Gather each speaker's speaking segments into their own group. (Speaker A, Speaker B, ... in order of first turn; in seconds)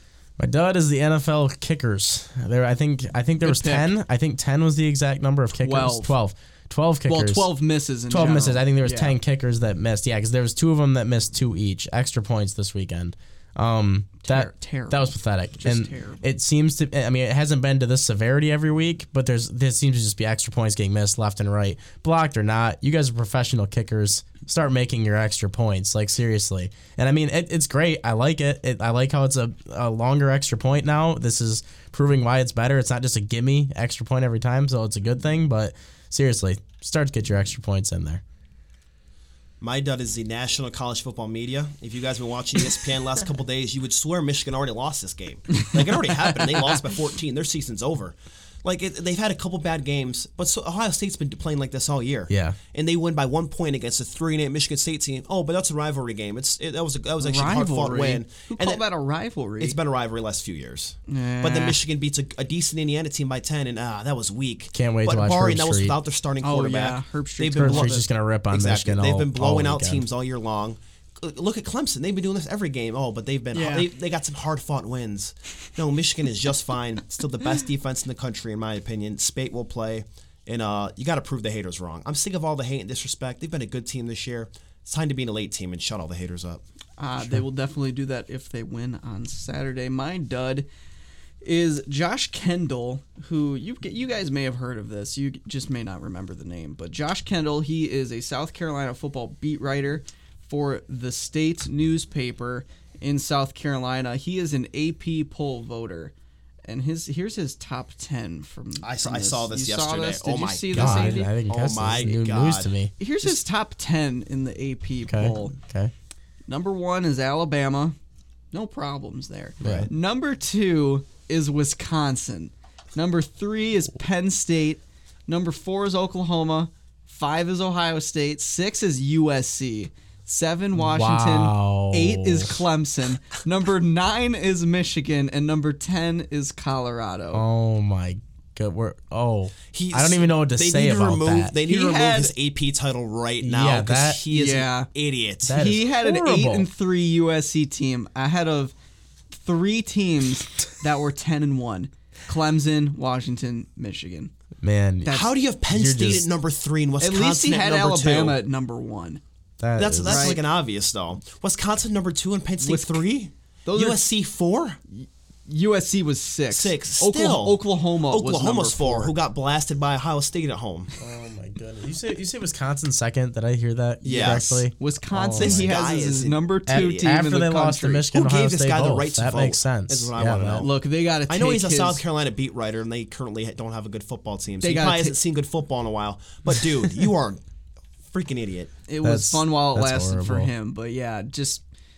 Speaker A: 0.4-7.5, 8.1-38.2, 52.3-52.6, 64.7-66.0, 67.6-70.0, 110.7-112.9, 115.1-115.9, 119.6-119.9, 130.8-132.6, 137.3-141.5, 143.4-144.2, 145.4-146.7, 154.6-156.3, 159.6-160.3, 171.0-175.7, 176.7-180.7, 189.0-190.5
Speaker B: 3.4-3.9, 5.5-6.1, 7.1-9.2, 14.2-16.2, 57.2-59.8, 61.1-61.8, 66.4-68.0, 73.5-73.9, 87.0-90.7, 91.4-106.1, 106.7-111.3, 113.0-115.6, 116.5-118.0, 118.5-137.4, 141.6-142.3, 144.3-144.9, 145.5-148.7, 149.3-154.3, 157.0-159.2, 160.1-160.4, 162.6-163.1, 163.7-164.0, 164.9-169.2, 174.1-178.1, 180.6-182.0, 184.6-185.2, 188.9-191.6
Speaker C: 39.6-58.8, 59.6-86.6, 108.8-112.7, 119.6-119.9, 139.7-145.8, 155.1-158.4, 159.8-164.8, 166.5-171.0, 174.0-174.7, 175.4-177.1, 178.1-187.4, 188.1-188.7